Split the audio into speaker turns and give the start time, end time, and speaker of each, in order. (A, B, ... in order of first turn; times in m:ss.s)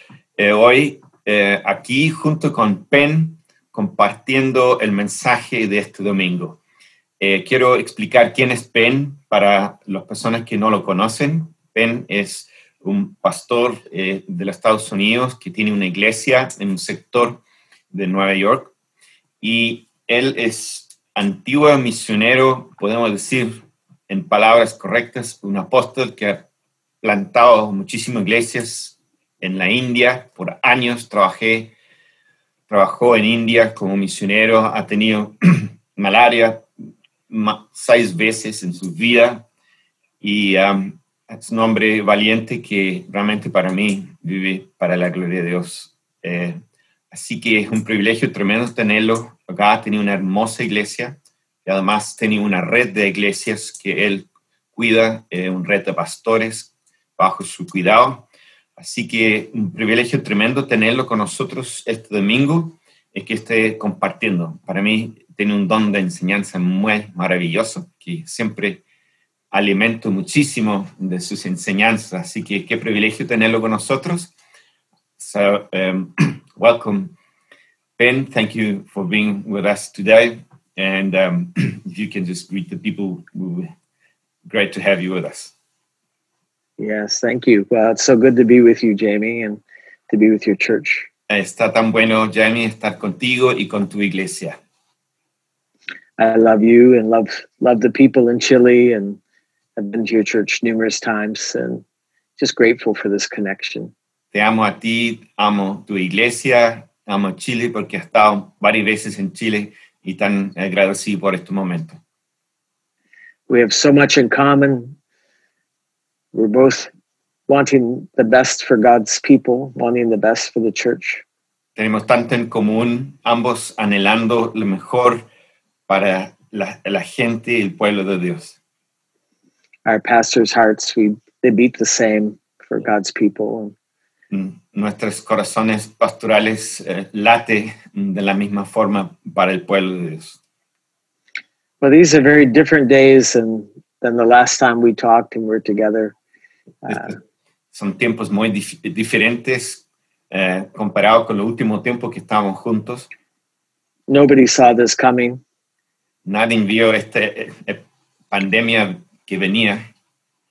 0:00.4-0:06.6 A
0:07.2-0:18.7 A
0:19.4-0:26.4 A
0:27.0-0:31.7 A
0:32.7-0:36.7 A
0:37.3-0:39.5 A
0:40.2-1:08.8 A
1:09.5-1:14.3 A
1:15.2-1:17.1 A
1:18.0-1:23.7 A
1:24.5-1:25.5 A
1:26.8-1:31.1 B
1:31.3-1:34.6 A
1:36.2-1:39.2 B
1:39.8-1:41.8 B
1:42.4-1:43.9 B
1:44.3-1:52.0 A
1:53.5-1:55.0 B
1:56.3-1:56.9 B
1:57.5-2:01.2 B
2:01.8-2:05.3 A
2:05.9-2:08.6 A
2:09.9-2:13.7 B
2:14.3-2:20.4 A
2:21.8-2:26.1 B
2:26.9-2:27.1 B
2:26.9-2:27.2 A
2:27.7-2:33.1 A
2:34.1-2:35.4 B
2:36.2-2:39.9 A